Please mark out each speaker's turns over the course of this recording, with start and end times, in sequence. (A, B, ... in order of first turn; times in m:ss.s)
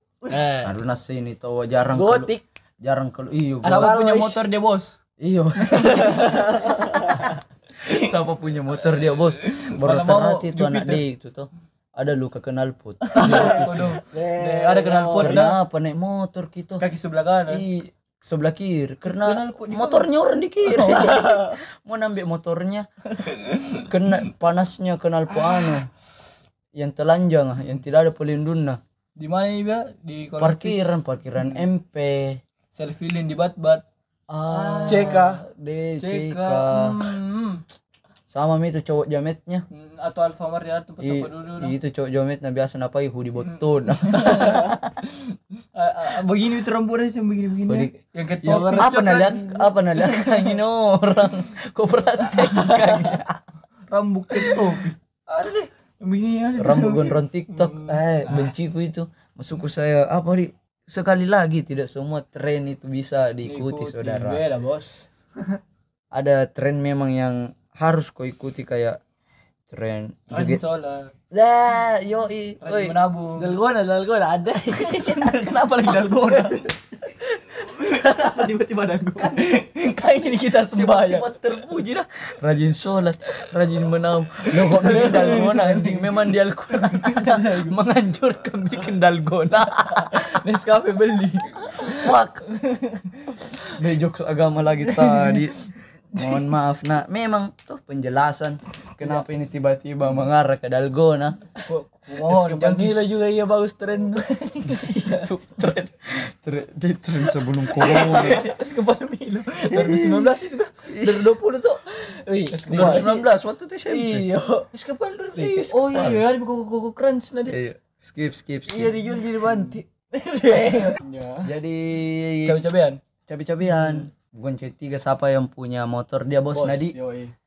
0:00.3-0:00.7 A
0:00.6-0:04.0 B
0:01.9-0:02.4 A
0:03.6-0:04.5 A
0:03.7-0:05.0 C
0:05.2-0:07.3 B
0:05.7-0:07.4 A
0:07.8-0:14.0 B
0:09.4-0:11.0 C
0:13.1-0:15.6 C
0:13.2-0:15.5 A
0:15.2-0:16.8 B
0:16.8-0:17.6 C
0:17.5-0:22.9 B
0:19.1-0:20.1 C
0:20.7-0:21.3 C
0:23.2-0:23.9 C
0:23.8-0:25.9 B
0:25.4-0:25.8 C
0:26.8-0:28.8 B
0:29.2-0:31.7 C
0:30.4-0:32.4 B
0:32.7-0:35.3 C
0:34.3-0:37.1 B
0:34.9-0:35.4 A
0:36.0-0:37.6 C
0:38.3-0:39.7 B
0:39.7-0:41.8 C
0:41.0-0:45.0 B
0:43.5-0:50.6 C
0:47.7-0:47.9 B
0:48.4-0:48.9 A
0:48.8-0:53.4 B
0:52.4-0:52.9 C
0:53.9-0:58.4 C
0:56.6-1:04.4 B
1:03.4-1:05.0 C
1:06.1-1:09.0 B
1:09.7-1:10.6 B
1:10.3-1:11.1 C
1:11.3-1:13.0 B
1:12.6-1:13.5 C
1:13.4-1:15.6 A
1:14.7-1:16.7 C
1:16.2-1:18.4 A
1:17.6-1:21.3 C
1:19.2-1:19.4 B
1:20.6-1:30.4 B
1:24.4-1:27.8 C
1:30.0-1:33.8 C
1:32.0-1:32.4 B
1:33.8-1:35.6 B
1:34.9-1:35.5 C
1:36.1-1:36.5 C
1:36.1-1:41.4 B
1:41.6-1:43.1 C
1:42.2-1:45.3 A
1:44.2-1:44.9 C
1:44.7-1:48.5 B
1:47.7-1:51.8 C
1:49.7-1:50.3 B
1:50.8-1:51.4 B
1:51.9-1:53.3 A
1:52.5-1:53.1 C
1:52.7-1:54.3 B
1:53.9-1:54.7 A
1:54.7-1:57.6 C
1:55.4-1:56.3 B
1:57.5-1:59.0 B
1:58.7-1:59.9 A
2:00.1-2:01.5 C
2:01.4-2:02.6 B
2:02.4-2:03.0 C
2:03.3-2:07.0 B
2:06.5-2:07.3 C